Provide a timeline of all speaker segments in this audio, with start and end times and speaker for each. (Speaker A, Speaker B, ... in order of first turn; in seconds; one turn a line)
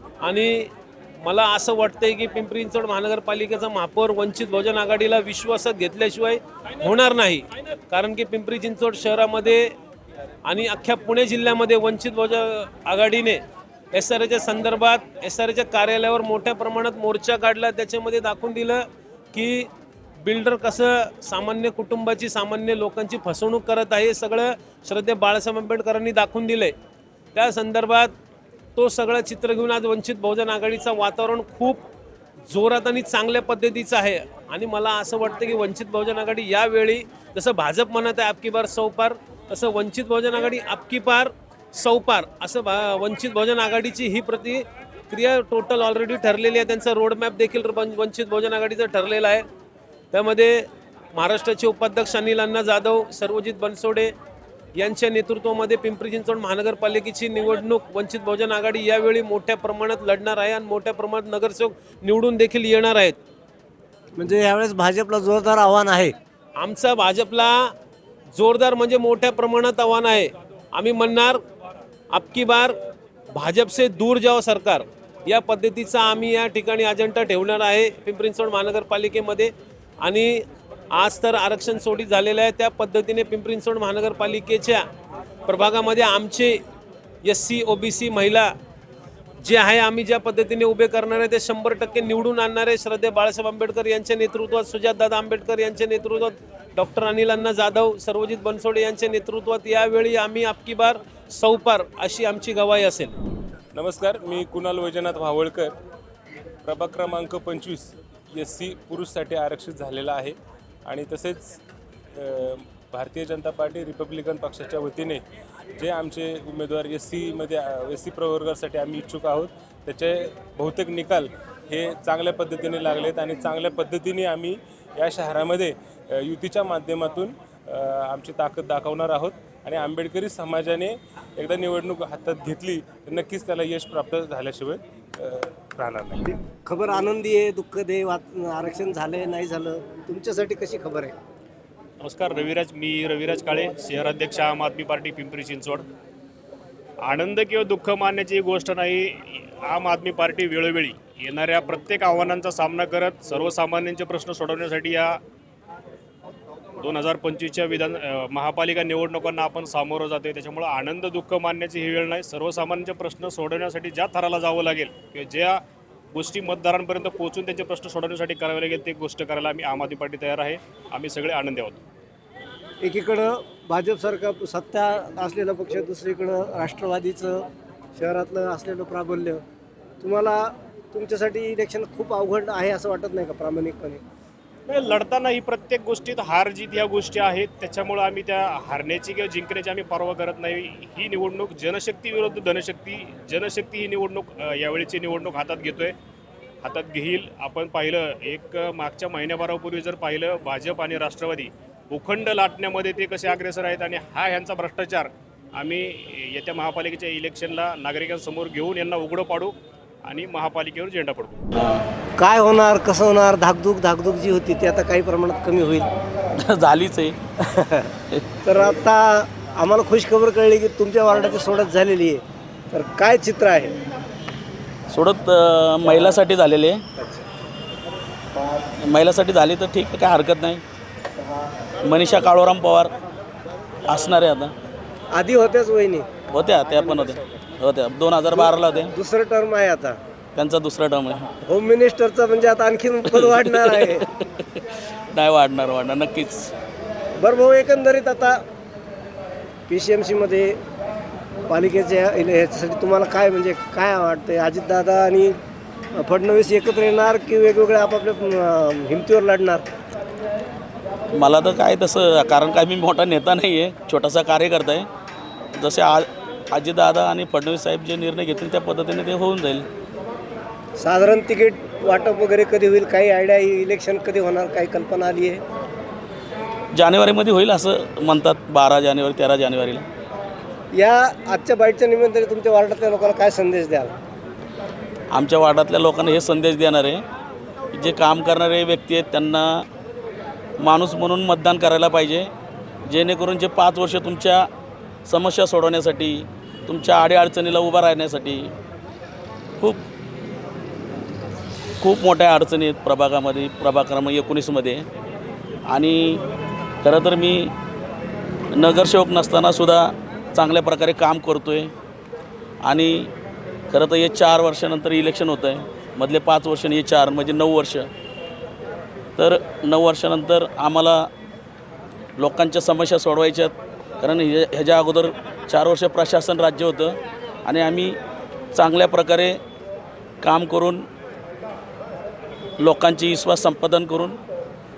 Speaker A: 0.2-9.7
Speaker A: 10.4-13.4
Speaker A: 13.9-19.7
Speaker A: 20.2-26.7
Speaker A: 27.3-28.1
Speaker A: 28.8-31.8
Speaker A: 32.5-49.5
Speaker A: 50.1-54.1
Speaker A: 54.8-63.2
Speaker B: 64.2-66.1
Speaker A: 66.6-67.7
Speaker A: 68.3-71.4
Speaker A: 72.1-72.8
Speaker A: 73.3-84.8
Speaker A: 85.5-86.6
Speaker A: 87.2-88.5
Speaker A: 89.4-103.2
Speaker C: 103.7-105.7
Speaker C: 106.7-111.6
Speaker C: 112.2-115.2
Speaker C: 115.8-136.3
Speaker B: 136.3-141.1
Speaker D: 142.0-145.8
Speaker D: 147.1-155.2
Speaker D: 156.8-165.6
Speaker D: 166.1-171.8
Speaker B: 172.8-177.4
Speaker B: 178.0-179.4
Speaker B: 180.0-184.0
Speaker D: 184.7-195.9
Speaker D: 196.6-209.5
Speaker D: 210.1-211.4
Speaker B: 212.2-215.9
Speaker E: 216.4-217.2
Speaker B: 217.4-217.9
Speaker B: 218.4-223.8
Speaker E: 224.9-226.8
Speaker B: 227.0-227.2
Speaker E: 228.8-230.6
Speaker E: 231.8-232.9
Speaker E: 233.9-234.5
Speaker B: 235.1-236.1
Speaker E: 236.3-238.9
Speaker B: 238.3-240.0
Speaker E: 240.3-241.3
Speaker B: 241.4-244.1
Speaker E: 243.1-244.3
Speaker E: 245.1-246.5
Speaker B: 247.2-248.4
Speaker B: 249.7-250.6
Speaker B: 251.5-255.4
Speaker B: 255.9-259.6
Speaker E: 261.1-264.9
Speaker E: 265.6-269.7
Speaker B: 270.8-275.4
Speaker E: 276.7-279.9
Speaker B: 280.7-283.9
Speaker E: 285.1-287.0
Speaker E: 287.7-289.6
Speaker E: 290.6-292.3
Speaker E: 292.9-294.5
Speaker E: 295.1-298.5
Speaker E: 299.6-299.9
Speaker E: 301.8-304.9
Speaker E: 305.7-306.2
Speaker E: 306.8-307.5
Speaker E: 308.5-311.7
Speaker E: 312.6-313.1
Speaker E: 313.7-317.9
Speaker E: 319.2-321.1
Speaker E: 322.2-328.0
Speaker E: 328.5-329.4
Speaker E: 330.2-330.9
Speaker E: 332.6-334.2